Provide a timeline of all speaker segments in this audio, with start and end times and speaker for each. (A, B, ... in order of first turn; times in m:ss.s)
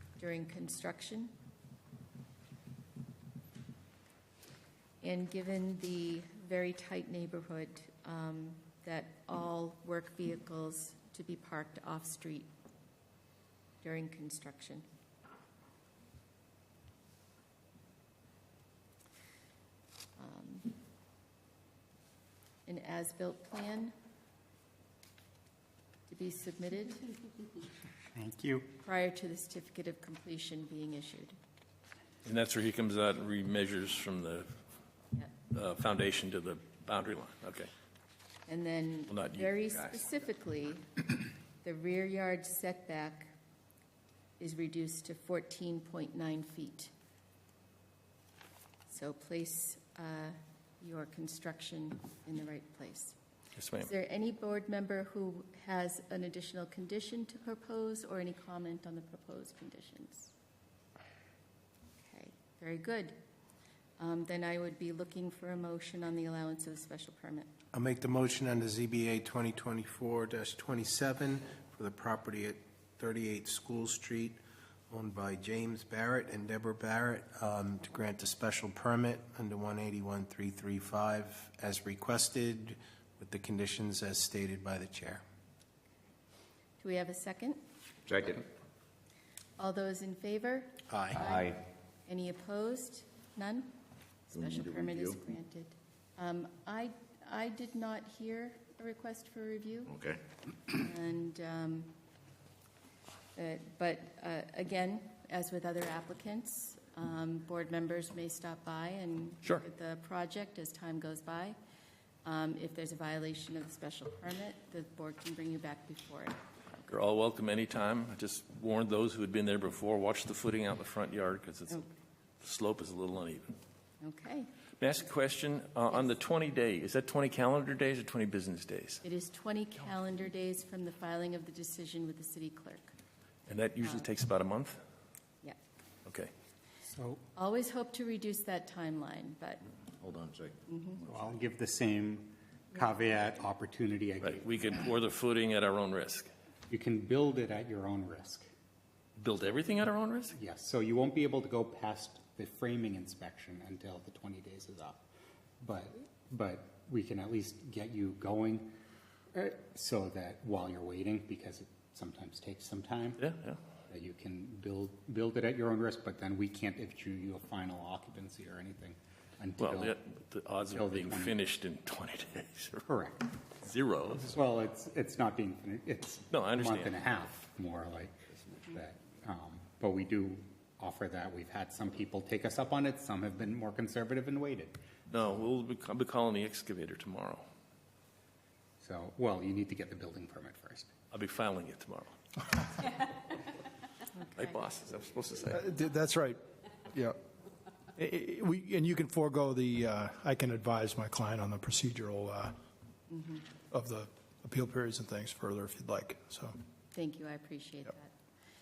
0:00.2-0:01.3 A
0:05.0-0:12.5 A
0:13.8-0:14.8 A
0:20.2-0:20.7 A
0:22.7-0:23.9 A
0:26.1-0:27.1 A
0:28.1-0:28.7 B
0:28.8-0:31.4 A
0:32.2-0:34.6 C
0:35.5-0:37.7 C
0:38.5-0:41.0 A
0:39.1-0:39.9 C
0:41.6-0:43.3 A
0:44.4-0:46.9 A
0:48.9-0:53.2 A
0:53.6-0:53.9 C
0:53.8-1:00.3 A
1:02.0-1:03.2 A
1:04.0-1:07.5 A
1:07.7-1:14.4 D
1:14.9-1:25.2 D
1:26.8-1:27.6 A
1:28.1-1:28.4 E
1:29.6-1:31.6 A
1:30.9-1:31.2 D
1:31.2-1:31.6 E
1:32.1-1:33.7 A
1:34.3-1:40.0 A
1:34.3-1:35.2 E
1:40.7-1:41.9 A
1:43.4-1:51.6 A
1:52.2-1:56.9 A
1:56.9-2:01.8 C
2:02.4-2:03.5 C
2:04.0-2:04.5 A
2:04.8-2:09.0 C
2:09.0-2:12.9 A
2:13.5-2:14.8 C
2:16.9-2:17.2 B
2:17.3-2:19.6 A
2:20.0-2:20.6 E
2:20.7-2:21.0 A
2:21.0-2:24.7 B
2:24.2-2:26.3 C
2:26.7-2:28.5 B
2:29.2-2:30.4 C
2:30.3-2:35.0 B
2:35.6-2:38.7 B
2:39.3-2:43.2 B
2:43.2-2:43.6 C
2:43.9-2:50.0 B
2:49.6-2:52.8 C
2:50.7-2:51.4 B
2:52.9-2:53.4 B
2:53.6-2:54.4 C
2:54.3-3:04.8 B
2:56.3-2:57.1 C
3:05.1-3:07.4 C
3:08.8-3:10.9 B
3:11.1-3:12.1 C
3:14.2-3:14.5 A
3:14.4-3:15.6 C
3:15.5-3:16.4 F
3:16.9-3:17.2 F
3:18.0-3:22.5 F
3:23.1-3:23.4 A
3:23.7-3:26.5 F
3:26.9-3:28.1 A